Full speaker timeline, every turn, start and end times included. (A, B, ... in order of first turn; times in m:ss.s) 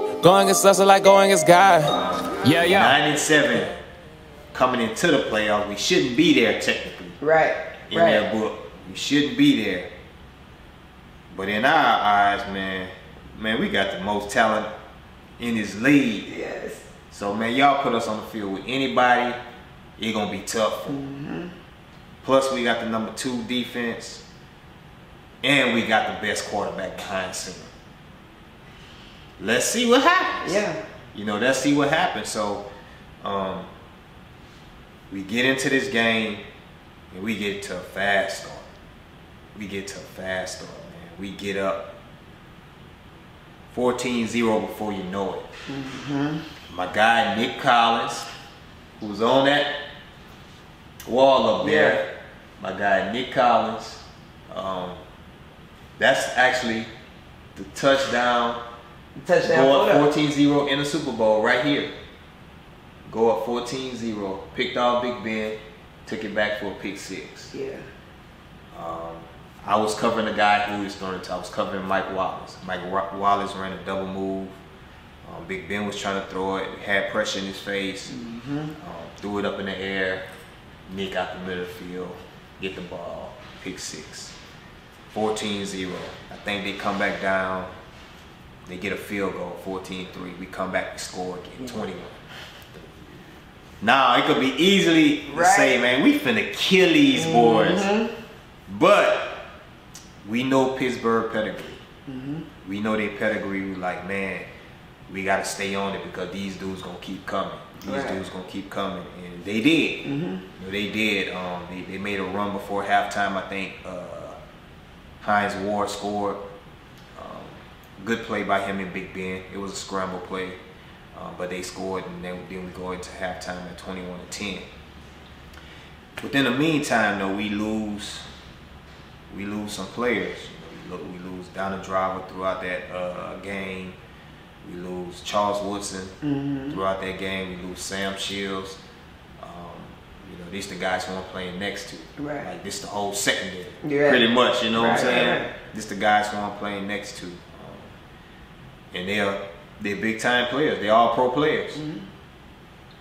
0:00.2-0:03.0 A
0:01.9-0:03.7 B
0:04.5-0:07.2 B
0:07.2-0:08.3 C
0:07.9-0:09.9 B
0:11.3-0:14.7 B
0:15.4-0:16.3 B
0:16.2-0:16.8 C
0:17.1-0:19.4 B
0:20.0-0:21.0 B
0:20.9-0:21.5 C
0:22.2-0:24.2 B
0:25.4-0:27.7 B
0:29.4-0:30.6 B
0:30.4-0:30.8 C
0:31.1-0:32.7 B
0:33.2-0:33.7 B
0:35.1-0:36.4 B
0:37.1-0:38.7 B
0:39.5-0:41.9 B
0:43.7-0:45.5 B
0:45.7-0:46.4 C
0:46.7-0:48.3 B
0:49.0-0:49.8 B
0:51.0-0:55.0 B
0:51.6-0:52.0 C
0:56.0-0:56.9 B
0:57.5-0:58.6 B
0:59.2-1:00.1 C
0:59.4-1:01.9 B
1:03.0-1:07.5 B
1:07.5-1:07.8 C
1:08.7-1:14.6 B
1:15.2-1:18.1 B
1:18.1-1:18.7 C
1:18.7-1:20.2 B
1:20.9-1:24.4 B
1:25.1-1:27.7 B
1:28.7-1:32.2 B
1:33.8-1:37.9 B
1:35.3-1:35.8 C
1:37.1-1:38.1 C
1:38.7-1:39.5 B
1:40.2-1:41.8 B
1:42.1-1:42.4 C
1:42.6-1:44.5 B
1:45.1-1:54.4 B
1:47.8-1:48.2 C
1:50.0-1:50.4 C
1:55.2-1:56.4 B
1:57.1-2:00.6 B
2:01.1-2:04.6 B
2:06.2-2:08.2 B
2:09.3-2:14.0 B
2:14.6-2:16.2 B
2:16.2-2:16.8 C
2:16.7-2:18.8 B
2:19.4-2:27.9 B
2:22.2-2:22.5 C
2:23.8-2:25.5 C
2:28.9-2:31.8 B
2:31.7-2:32.0 C